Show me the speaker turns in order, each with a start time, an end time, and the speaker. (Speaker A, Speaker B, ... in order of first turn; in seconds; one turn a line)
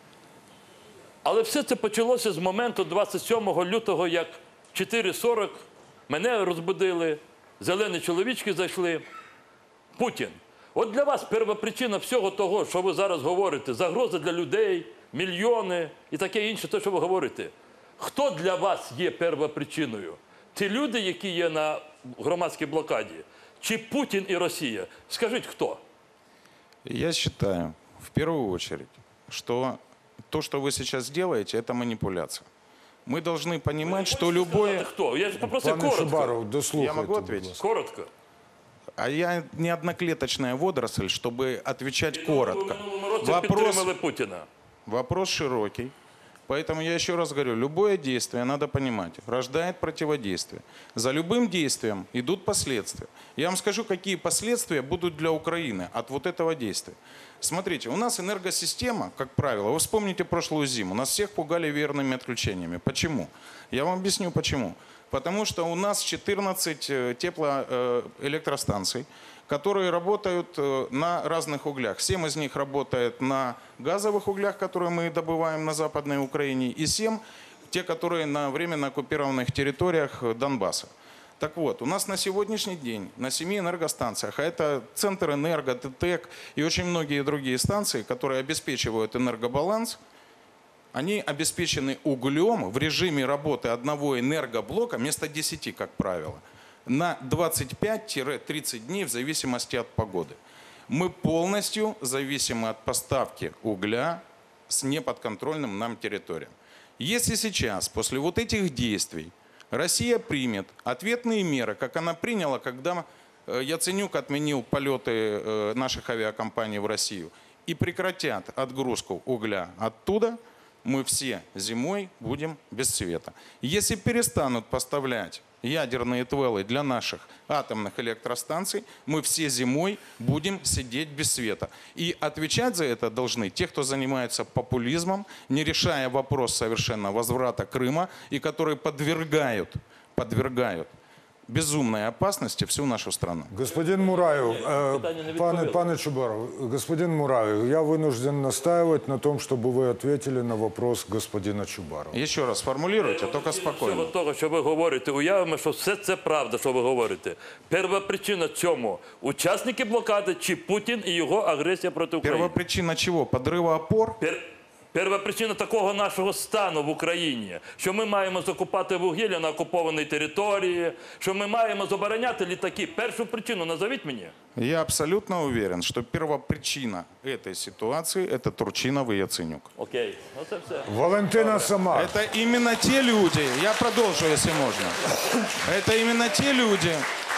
Speaker A: 1.2-9.0
Speaker A: 9.9-25.8
Speaker B: 26.8-29.8
Speaker B: 30.3-32.5
Speaker B: 33.1-34.9
Speaker A: 33.8-36.3
Speaker C: 35.5-37.6
Speaker B: 36.7-37.6
Speaker A: 37.6-38.1
Speaker B: 39.0-43.9
Speaker A: 42.1-44.5
Speaker B: 44.9-45.9
Speaker B: 46.5-90.0
Speaker B: 90.9-100.4
Speaker B: 100.9-140.9
Speaker B: 141.5-143.5
Speaker C: 143.5-152.2
Speaker A: 143.8-145.9
Speaker B: 152.1-154.1
Speaker A: 153.0-162.5
Speaker B: 162.2-164.2
Speaker A: 164.2-174.3
Speaker B: 174.6-179.7
Speaker A: 179.8-181.7
Speaker C: 180.8-182.2
Speaker B: 181.9-187.0